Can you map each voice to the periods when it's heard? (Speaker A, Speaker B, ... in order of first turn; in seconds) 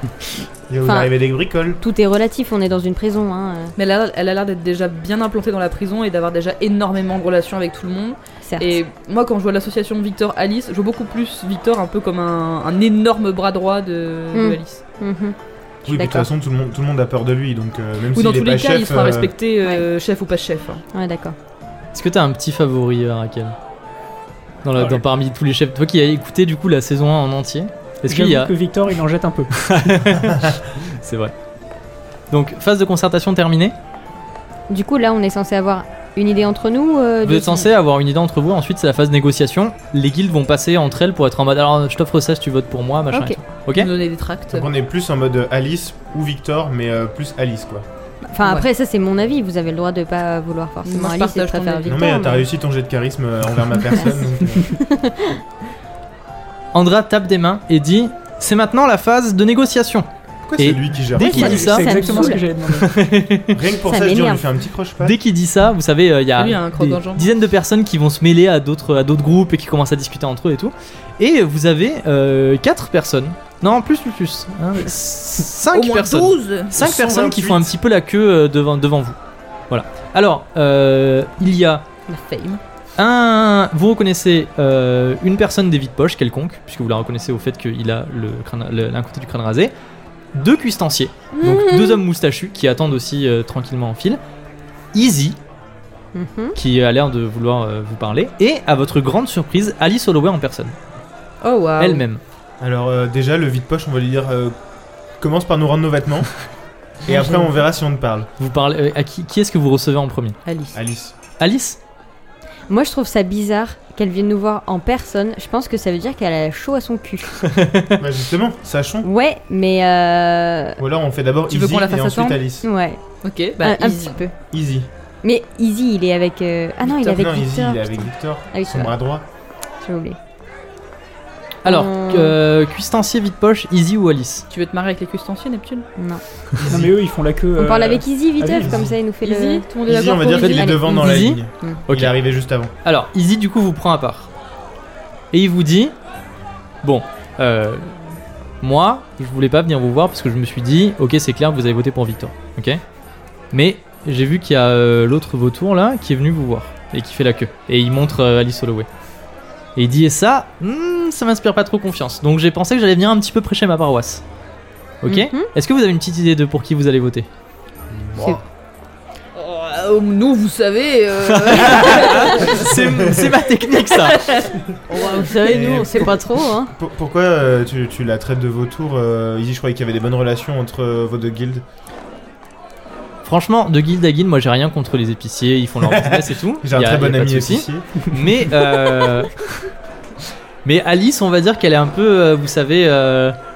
Speaker A: 0.7-1.8, 15.9-19.3, 44.5-47.9, 51.9-54.7, 60.4-61.9, 63.5-65.2, 76.7-77.7, 102.6-104.5, 105.2-106.4, 107.0-108.3, 110.7-111.1, 118.0-119.1, 120.8-122.7, 124.5-124.9, 127.1-129.2, 136.6-136.9, 138.6-138.9, 139.9-142.7, 167.9-168.4, 171.7-172.0, 172.6-173.3, 175.4-176.2, 176.7-181.6, 185.8-188.1
Speaker B: 0.8-1.1, 1.8-3.7, 8.4-8.8, 14.3-16.3, 20.9-21.4, 34.7-37.7, 43.1-43.4, 48.3-52.5, 54.7-55.4, 61.2-62.5, 63.8-64.5, 96.1-96.6, 112.7-117.4, 119.0-120.8, 122.6-123.0, 123.6-124.3, 125.2-128.0, 128.5-128.9, 129.8-130.2, 131.6-132.3, 136.0-136.2, 137.5-139.7, 140.4-141.8, 165.1-165.5, 174.9-176.7
Speaker C: 3.8-14.8, 18.1-20.8, 43.7-44.7, 50.8-52.0, 66.3-67.3, 75.7-76.7, 82.1-82.6, 91.4-92.0, 101.4-102.0, 110.5-110.8, 121.5-122.4, 123.2-124.2, 126.8-127.3, 134.5-135.8, 139.2-140.6, 169.3-172.6, 173.9-175.5
Speaker D: 21.9-23.5, 24.6-28.5, 29.5-31.3, 32.3-33.7, 37.2-43.9, 56.7-60.1, 60.6-63.6, 65.0-79.2, 79.7-81.8, 83.0-89.7, 90.3-94.2, 94.9-95.4, 96.5-100.8, 101.8-102.2, 108.4-110.3, 111.4-111.8, 117.4-118.0, 131.6-134.4, 140.4-142.1, 142.8-144.3, 145.3-145.9, 146.8-148.1, 148.6-152.8, 153.5-158.9, 159.8-164.2, 165.0-167.3, 171.2-174.3, 183.2-189.3, 190.6-193.4
Speaker E: 28.1-30.1, 61.3-62.9, 136.7-138.8